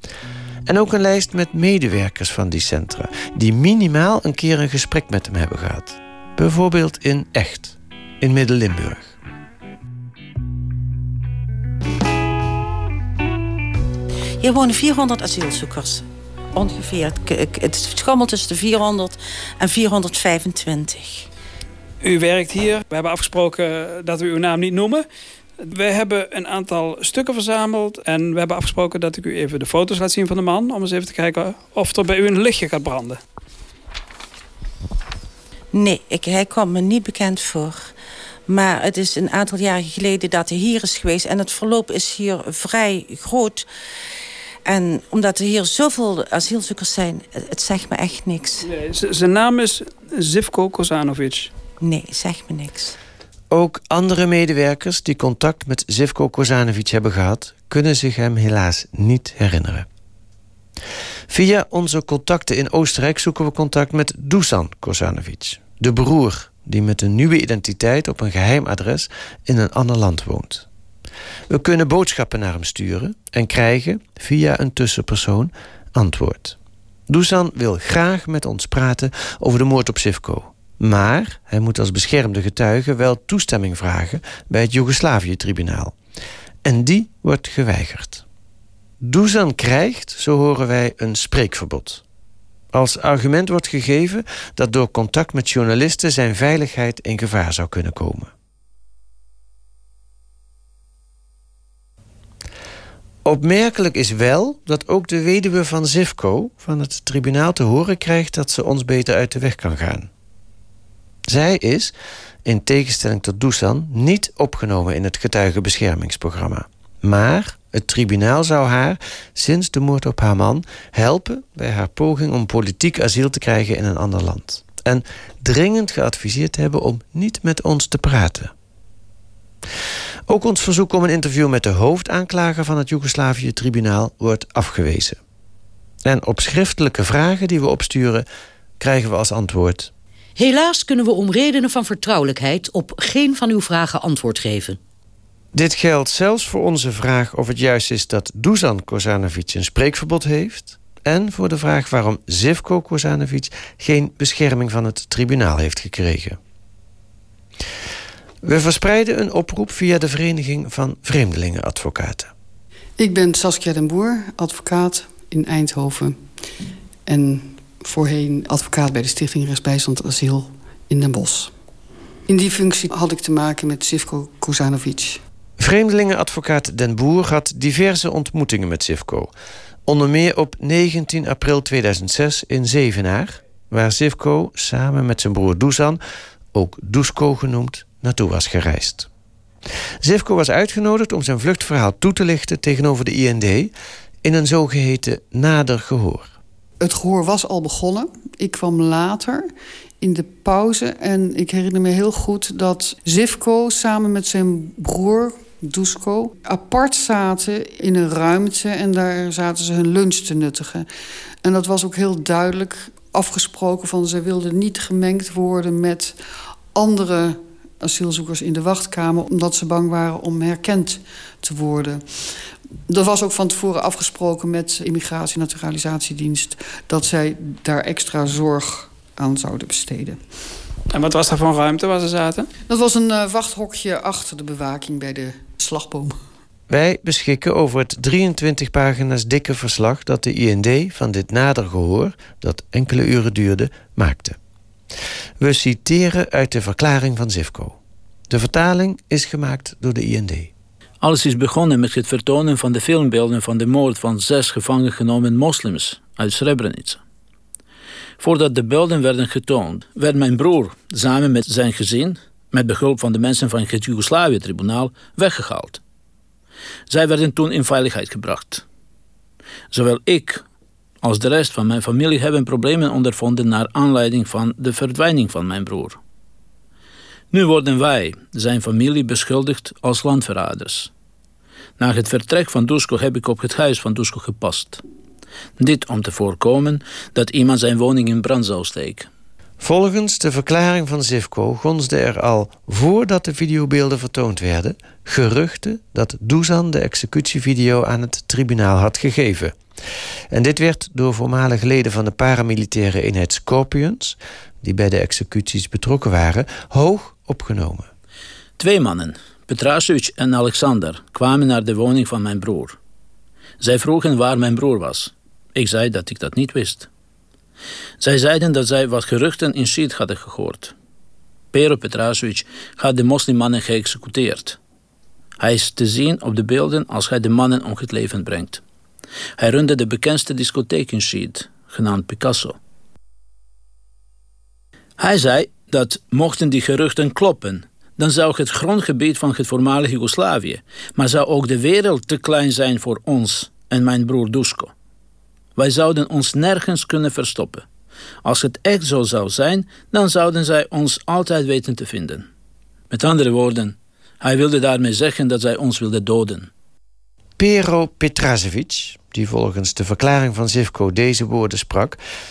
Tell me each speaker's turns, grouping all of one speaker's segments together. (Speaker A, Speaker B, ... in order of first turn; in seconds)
Speaker A: 0.7-9.1, 53.5-59.9, 61.3-70.7, 71.5-76.6, 77.1-85.9, 86.6-88.2, 89.0-92.0, 92.7-98.3, 103.2-110.1, 111.3-111.9, 112.4-128.5, 130.3-135.2, 136.0-138.2, 138.8-139.9, 145.5-156.4, 158.4-162.3, 175.6-179.3, 179.8-186.0, 186.5-189.1, 190.0-193.7, 194.2-196.3, 236.7-244.4, 245.4-247.8, 248.3-250.5, 289.6-299.6, 300.3-307.9, 357.4-362.0
Speaker B: 14.4-21.3, 35.7-37.9, 38.5-43.7, 44.6-48.6, 51.8-52.9
Speaker C: 22.0-25.0, 25.6-33.2, 48.6-51.5, 230.9-232.5
Speaker D: 140.3-144.8
Speaker E: 163.0-166.2, 167.1-171.5, 172.3-175.2, 196.8-199.4, 200.0-210.9, 211.4-216.2, 216.7-222.0, 222.9-230.2, 232.7-236.2
Speaker F: 251.0-257.0, 258.2-265.8, 266.9-268.6, 269.7-270.4, 271.0-276.0, 277.3-280.9, 281.8-284.8, 285.6-289.1, 308.6-312.8, 313.6-316.9, 318.0-320.7, 321.5-324.6, 325.4-328.6, 329.4-332.6, 335.0-344.7, 345.6-347.6, 348.2-352.2, 352.9-356.5